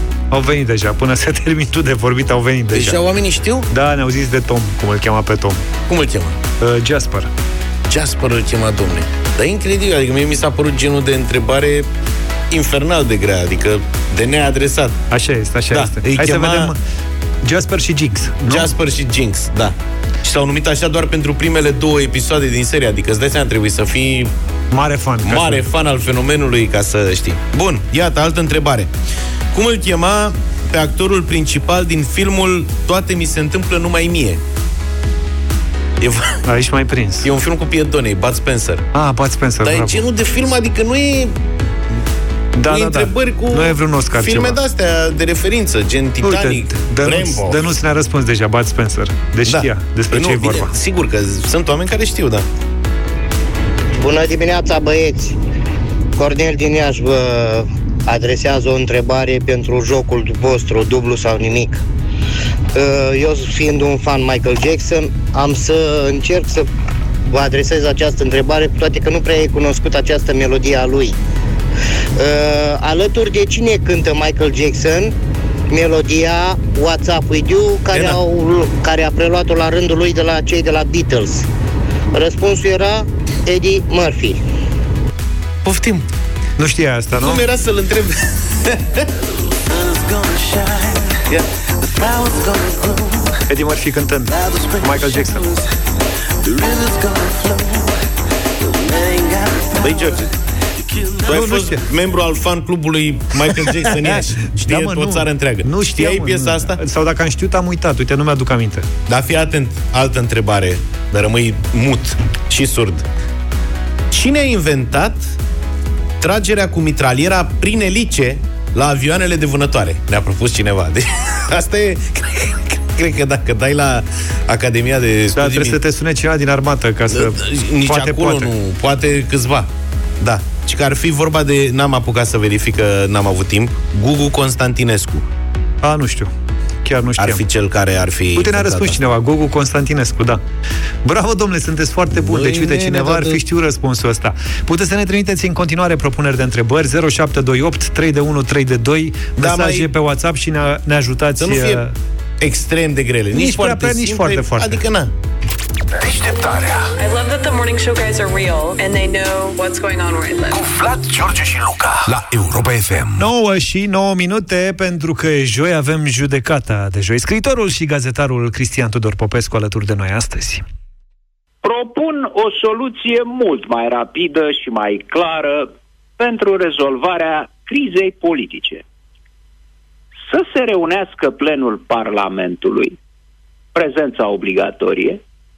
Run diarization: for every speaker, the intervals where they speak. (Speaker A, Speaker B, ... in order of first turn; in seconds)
Speaker A: 0.3-3.0, 3.7-5.6, 6.6-7.3, 15.1-16.8, 17.4-18.7, 24.7-25.6, 36.4-37.3, 38.9-40.0, 42.5-44.6, 46.2-50.7, 86.6-87.4, 93.5-95.5, 101.3-101.8, 103.3-108.9, 125.3-128.5, 135.8-136.3, 136.8-137.4, 138.3-140.4, 141.0-151.9, 153.3-154.8, 163.2-170.6
Speaker B: 2.7-3.7, 5.9-6.4, 7.9-11.9, 12.5-14.9, 15.7-16.7, 18.5-24.3, 25.2-28.9, 29.5-34.4, 36.0-36.4, 37.2-38.9, 39.6-41.4, 42.6-47.7, 49.5-52.4, 77.9-78.2, 85.6-86.1, 87.2-89.1, 99.8-100.2, 101.2-106.8, 109.1-113.0, 114.1-115.3, 116.2-125.8, 127.1-129.7, 130.2-135.2, 137.2-139.0, 142.2-143.4, 149.4-149.9, 151.4-151.8, 152.4-155.1
Speaker C: 54.0-55.4, 56.1-61.8, 62.7-66.7, 67.3-71.2, 72.2-75.1, 75.7-81.5, 82.1-84.4
Speaker D: 89.7-91.0, 91.8-93.3, 94.3-95.6, 96.4-97.9, 98.6-100.1
Speaker E: 156.0-156.9, 160.5-163.2
Speaker F: 157.0-160.6
Speaker G: 171.6-178.8, 180.2-183.0, 183.7-185.2